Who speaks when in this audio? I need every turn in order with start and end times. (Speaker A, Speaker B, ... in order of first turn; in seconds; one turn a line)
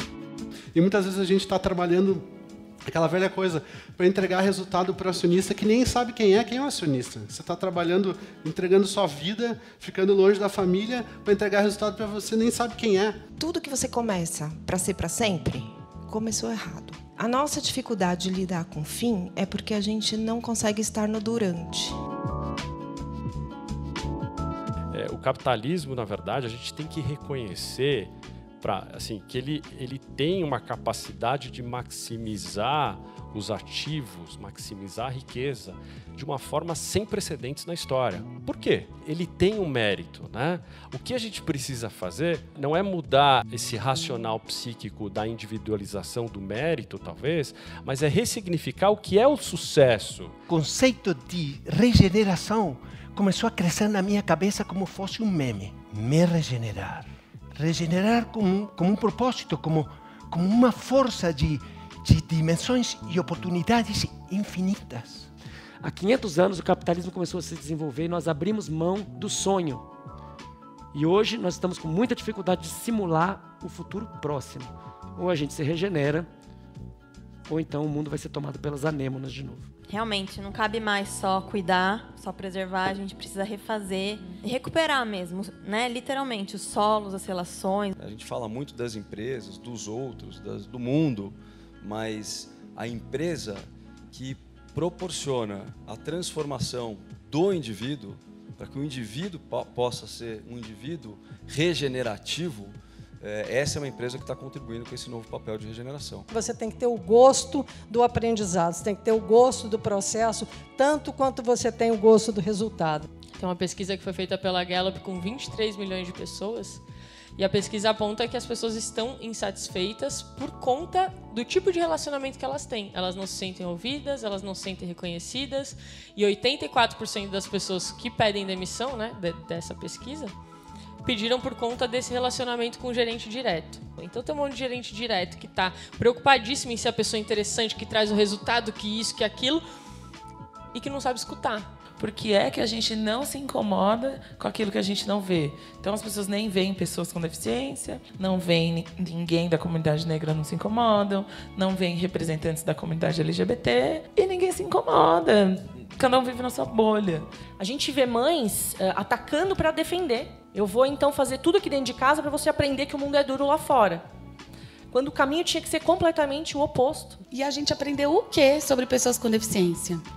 Speaker A: 0.7-2.2
Speaker A: 2.8-13.2
Speaker B: 13.4-21.9
Speaker C: 24.9-50.3
Speaker D: 50.5-65.3
Speaker E: 65.8-69.8
Speaker E: 70.9-76.3
Speaker E: 77.5-79.7
Speaker F: 79.9-88.0
Speaker G: 88.0-93.6
Speaker G: 94.1-106.2
Speaker H: 106.3-113.0
Speaker I: 113.4-116.8
Speaker I: 117.4-130.3
Speaker I: 131.0-139.6
Speaker I: 140.7-141.7
Speaker J: 142.0-157.2
Speaker K: 157.6-164.0
Speaker K: 164.9-167.2
Speaker L: 167.3-170.0